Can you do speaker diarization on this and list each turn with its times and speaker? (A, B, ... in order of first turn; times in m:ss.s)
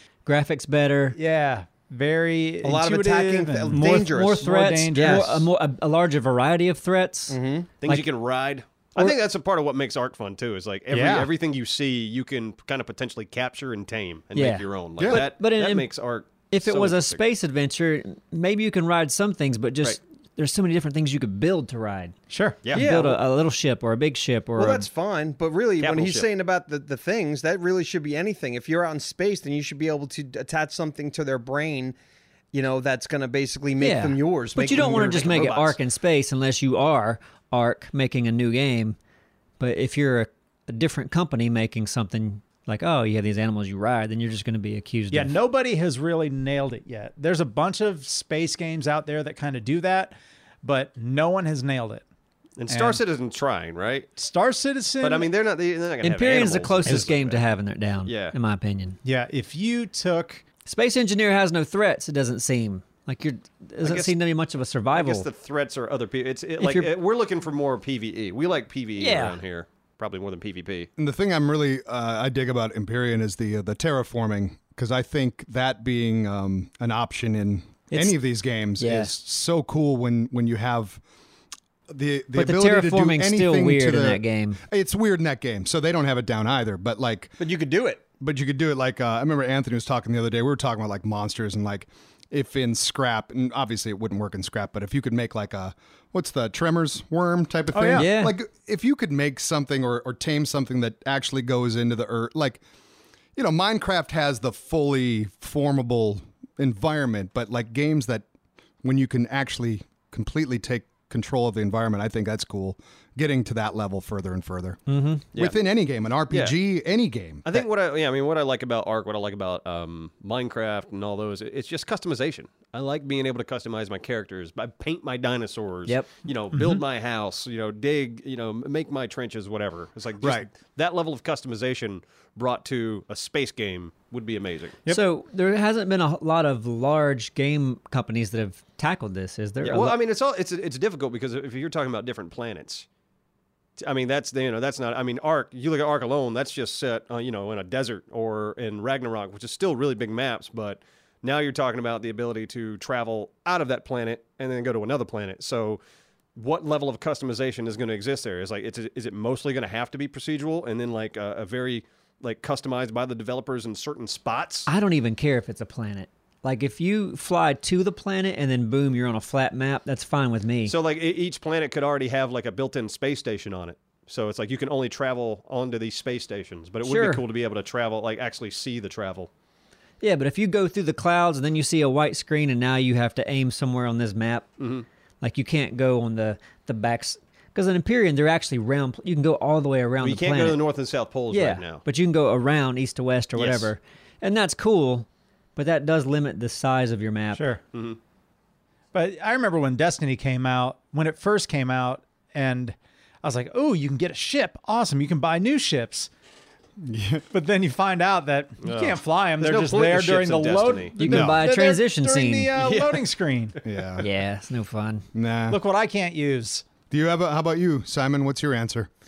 0:00.2-0:01.2 A
0:01.1-0:05.4 B
0:02.6-0:05.3 C
0:03.7-0:08.1 A
0:07.3-0:07.7 C
0:07.8-0:17.2 D
0:10.9-0:11.3 B
0:14.3-0:15.9 A
0:15.0-0:15.2 E
0:16.5-0:22.2 A
0:22.3-0:22.6 B
0:22.6-0:22.9 D
0:22.7-0:24.9 A
0:22.7-0:23.2 C
0:24.6-0:31.9 C
0:25.8-0:26.3 D
0:32.5-0:35.6 C
0:33.8-0:39.0 A
0:34.8-0:35.8 D
0:39.6-0:45.3 A
0:45.1-0:52.0 B
0:52.6-0:54.1 D
0:52.7-0:53.0 B
0:54.2-0:55.3 B
0:55.0-0:57.4 D
0:56.0-0:59.0 A
0:58.0-0:58.3 D
0:59.0-1:00.4 B
1:00.6-1:05.3 A
1:03.8-1:04.1 D
1:04.9-1:10.9 D
1:06.6-1:06.9 A
1:09.0-1:09.4 A
1:11.0-1:21.0 E
1:17.9-1:18.2 A
1:18.8-1:19.1 A
1:21.9-1:27.4 E
1:22.3-1:24.6 A
1:27.4-1:28.0 C
1:28.2-1:42.6 E
1:37.7-1:38.0 B
1:37.9-1:38.3 A
1:43.4-1:48.2 E
1:48.8-1:57.6 E
1:54.9-1:55.2 A
1:56.3-1:56.6 D
1:57.4-2:14.8 D
2:10.2-2:10.5 E
2:14.9-2:20.0 A
2:19.6-2:22.8 D
2:23.8-2:35.8 D
2:36.4-2:44.7 D
2:44.7-2:50.7 A
2:50.7-2:59.3 D
2:56.8-2:57.2 A
3:00.0-3:04.5 A
3:04.6-3:04.8 D
3:05.2-3:10.6 A
3:10.0-3:11.8 D
3:11.3-3:17.5 A
3:13.3-3:13.7 D
3:17.3-3:17.6 B
3:17.7-3:18.0 D
3:18.9-3:26.1 B
3:26.8-3:27.2 E
3:27.3-3:33.6 B
3:28.6-3:31.3 D
3:31.0-3:32.5 A
3:31.0-3:31.4 E
3:32.5-3:33.0 D
3:33.6-3:34.0 E
3:34.0-3:35.0 A
3:35.1-3:35.6 E
3:35.5-3:36.6 B
3:36.9-3:38.9 E